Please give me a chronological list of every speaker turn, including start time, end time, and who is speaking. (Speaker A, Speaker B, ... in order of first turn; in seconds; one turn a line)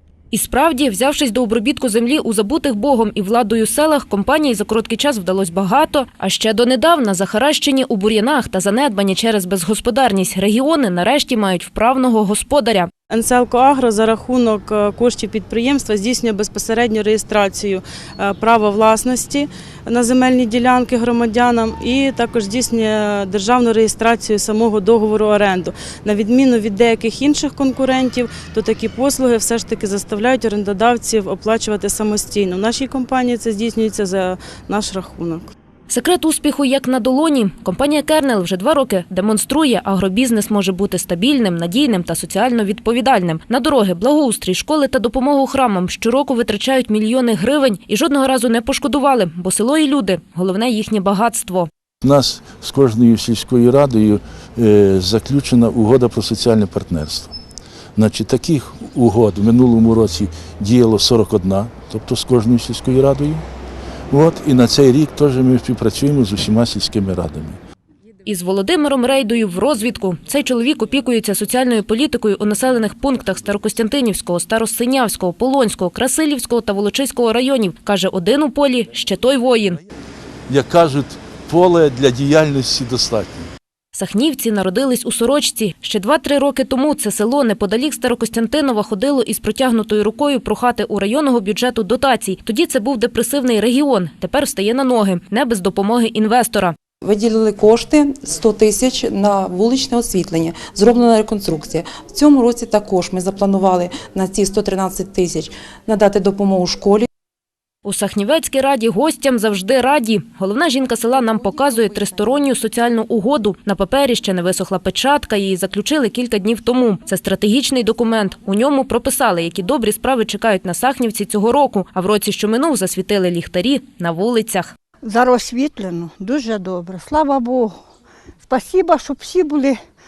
Speaker A: 0.3-12.9
Speaker B: 13.1-35.5
Speaker A: 35.9-51.7
Speaker C: 52.0-57.3
Speaker C: 58.0-63.4
Speaker C: 64.1-67.6
Speaker A: 68.2-79.8
Speaker C: 80.5-83.5
Speaker A: 83.9-96.7
Speaker D: 97.0-107.1
Speaker A: 107.8-124.7
Speaker E: 125.0-127.8
Speaker E: 128.4-129.8